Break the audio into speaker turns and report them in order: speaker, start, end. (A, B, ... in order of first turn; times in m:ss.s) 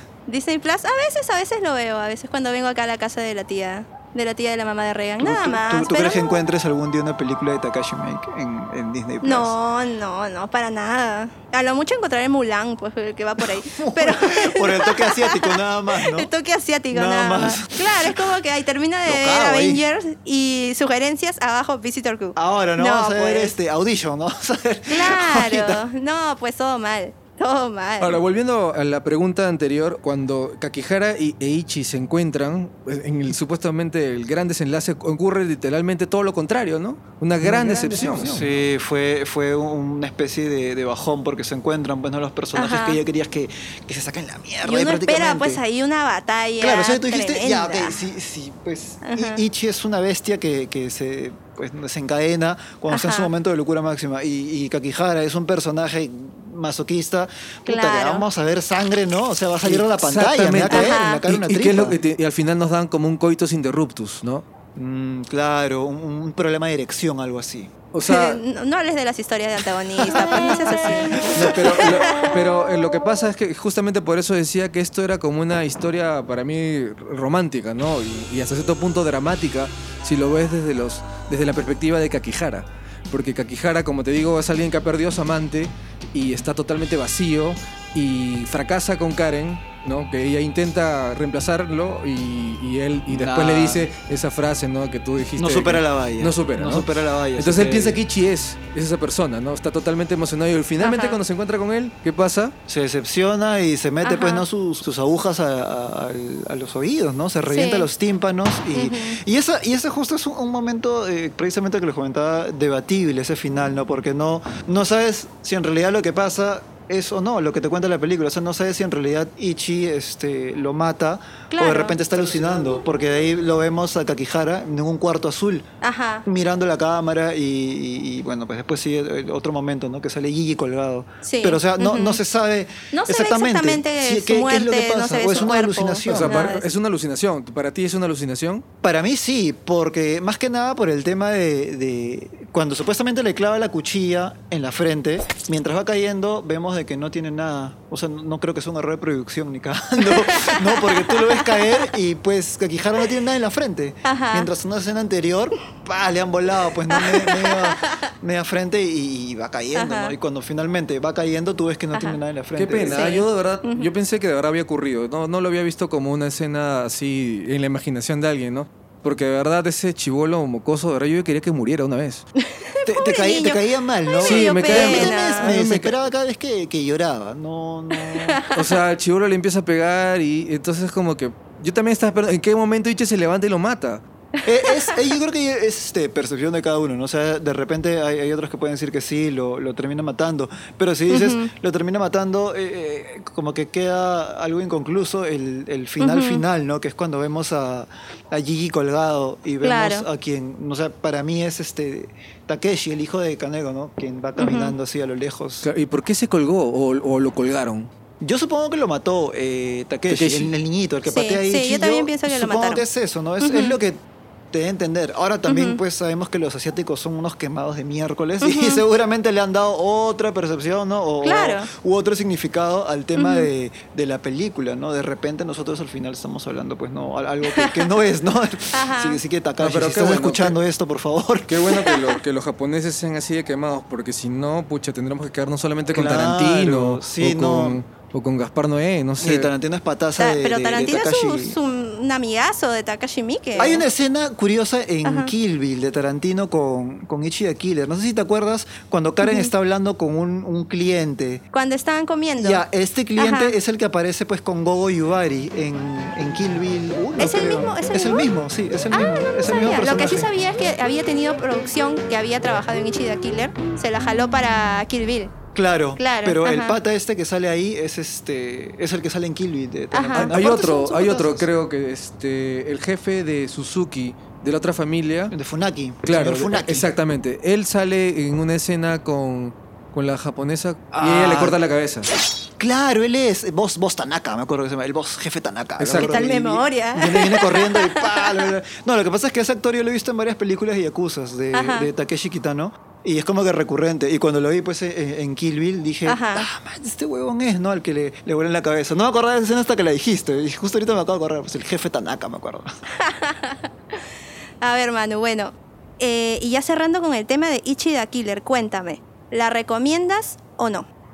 0:00.3-0:06.4 A
0:05.2-0:09.5 B
0:09.2-0:23.5 A
0:13.4-0:16.3 B
0:16.9-0:18.2 B
0:19.0-0:19.8 B
0:22.4-0:25.8 B
0:24.9-0:28.2 A
0:28.0-0:38.4 C
0:37.4-0:45.6 B
0:42.5-0:43.0 A
0:44.6-0:48.0 A
0:46.6-1:02.0 B
0:49.0-0:49.4 A
0:52.9-0:53.3 A
0:57.6-0:58.3 A
0:59.6-1:04.4 C
1:00.7-1:01.2 A
1:04.8-1:07.7 B
1:07.9-1:08.4 C
1:08.0-1:12.3 A
1:10.0-1:12.0 B
1:11.3-1:42.5 C
1:33.1-1:33.9 B
1:35.4-1:38.0 B
1:40.8-1:41.2 A
1:42.7-2:05.6 B
1:44.0-1:44.4 A
1:47.5-1:47.9 A
1:48.7-1:49.2 A
2:01.5-2:02.0 A
2:05.8-2:06.2 A
2:06.2-2:16.4 B
2:11.2-2:12.2 A
2:12.9-2:16.6 A
2:16.0-2:18.6 C
2:18.8-2:43.1 B
2:30.0-2:31.7 A
2:34.0-2:34.5 A
2:36.9-2:37.8 A
2:39.7-2:40.2 A
2:42.6-2:52.2 C
2:42.9-2:43.9 A
2:52.4-2:55.5 A
2:52.8-2:58.4 B
2:54.2-2:56.0 C
2:57.9-2:58.7 A
2:58.5-3:04.0 C
3:04.4-3:25.7 B
3:04.7-3:05.0 A
3:11.1-3:11.5 A
3:16.0-3:16.4 A
3:19.6-3:20.0 A
3:24.4-3:24.8 A
3:25.6-3:27.9 C
3:28.2-3:34.0 B
3:30.1-3:30.5 C
3:31.0-3:32.8 A
3:33.4-3:33.8 A
3:34.5-3:51.8 B
3:35.5-3:35.8 A
3:38.4-3:38.8 A
3:41.2-3:41.7 A
3:43.2-3:43.5 A
3:47.5-3:47.9 A
3:48.7-3:49.2 A
3:49.6-3:50.6 C
3:51.5-3:59.5 C
3:55.9-3:57.8 B
3:59.2-4:01.6 B
4:00.2-4:03.8 A
4:03.6-4:11.4 B
4:05.0-4:05.3 A
4:09.2-4:09.5 A
4:11.5-4:12.6 A
4:12.4-4:20.3 B
4:13.2-4:13.6 A
4:17.2-4:18.3 A
4:18.9-4:25.3 A
4:25.5-4:31.5 B
4:26.0-4:26.8 A
4:29.9-4:30.3 A
4:30.1-4:35.3 C
4:35.3-4:36.9 B
4:36.0-4:42.1 C
4:40.9-4:41.6 B
4:42.6-5:02.7 B
4:45.8-4:46.2 C
4:45.9-4:48.5 A
4:51.5-4:51.9 A
4:56.0-4:56.5 A
5:03.0-5:04.0 A
5:04.6-5:10.9 A